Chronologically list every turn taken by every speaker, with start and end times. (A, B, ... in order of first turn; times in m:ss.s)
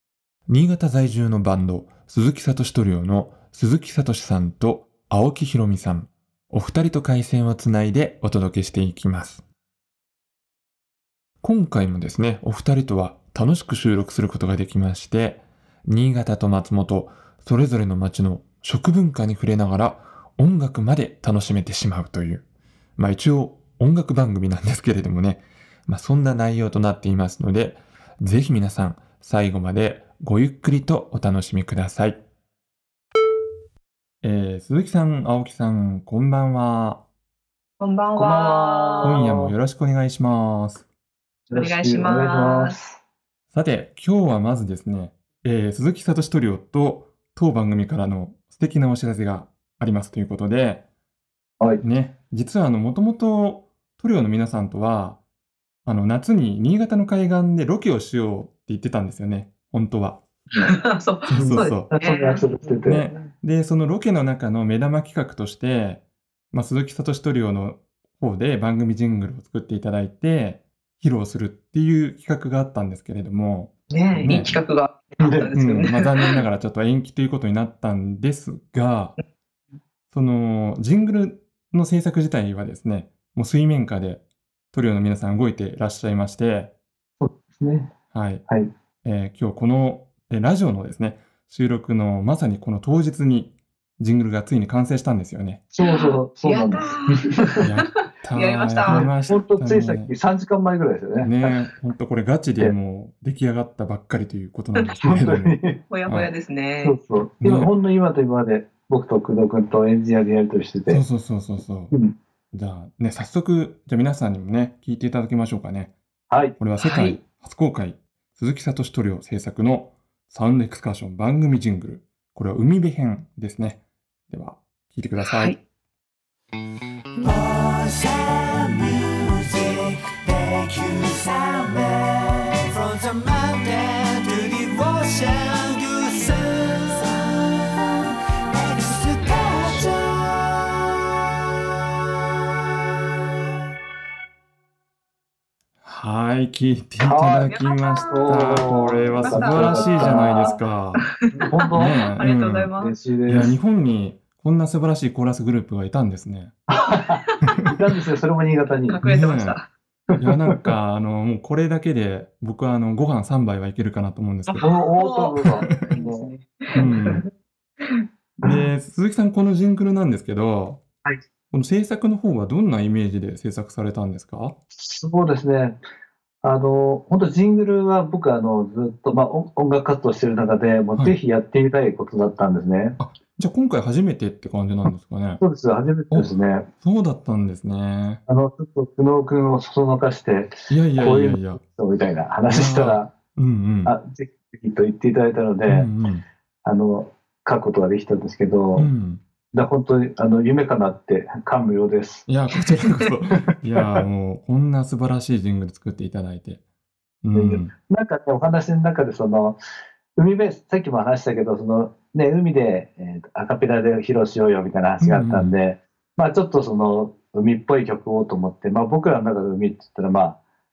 0:00.5-0:09.4 A
0:11.4-0:22.4 A
0:23.0-0:32.2 A
0:34.2-0:37.0 A
0:37.8-0:39.2 B
0:38.1-0:39.5 C
0:39.0-0:40.8 A
0:41.5-0:43.0 C
0:41.5-0:42.8 B
0:43.5-0:50.8 A
0:51.8-0:55.2 A
0:55.8-1:00.2 A
1:00.6-1:03.3 B
1:01.3-1:01.9 A
1:01.4-1:03.1 C
1:02.8-1:14.6 A
1:13.9-1:16.4 B
1:14.1-1:14.5 C
1:15.2-1:15.5 C
1:15.5-1:19.1 A
1:20.1-1:24.2 A
1:24.7-1:26.7 A
1:27.2-1:27.9 C
1:28.1-1:28.4 A
1:29.0-1:35.6 A
1:35.7-1:37.6 C
1:35.8-1:37.7 B
1:37.6-1:40.1 A
1:38.3-1:39.1 B
1:38.8-1:41.3 C
1:41.2-1:45.5 A
1:45.0-1:45.8 C
1:45.9-1:47.0 B
1:46.0-1:46.3 A
1:46.8-1:51.0 C
1:47.4-1:47.7 A
1:50.9-1:51.9 A
1:52.5-1:55.9 A
1:56.3-1:56.5 C
1:56.6-2:05.6 A
1:56.8-1:57.2 B
2:05.2-2:05.6 B
2:07.2-2:20.9 D
2:25.8-2:31.0 A
2:27.1-2:27.5 C
2:27.1-2:30.4 B
2:28.1-2:30.6 C
2:31.0-2:32.9 B
2:31.5-2:32.0 C
2:31.8-2:32.7 A
2:32.8-2:33.5 C
2:33.3-2:36.5 A
2:36.7-2:39.0 C
2:37.4-2:37.7 A
2:38.9-2:39.7 B
2:39.0-2:39.6 A
2:40.1-2:40.7 C
2:40.2-2:44.7 A
2:44.5-2:47.2 B
2:44.6-2:47.0 C
2:46.8-2:47.2 A
2:47.8-2:48.0 B
2:48.4-2:50.8 A
2:51.5-2:54.6 A
2:54.7-2:55.8 C
2:56.4-3:03.0 C
3:03.0-3:05.4 A
3:05.4-3:06.7 C
3:06.8-3:08.2 A
3:08.3-3:13.1 C
3:10.7-3:11.6 A
3:12.5-3:13.9 A
3:13.8-3:15.9 C
3:15.7-3:16.2 A
3:16.6-3:18.9 C
3:18.7-3:19.2 A
3:19.5-3:22.3 C
3:22.3-3:26.6 A
3:27.2-3:27.7 A
3:27.3-3:29.6 C
3:30.2-3:40.4 C
3:35.0-3:35.5 A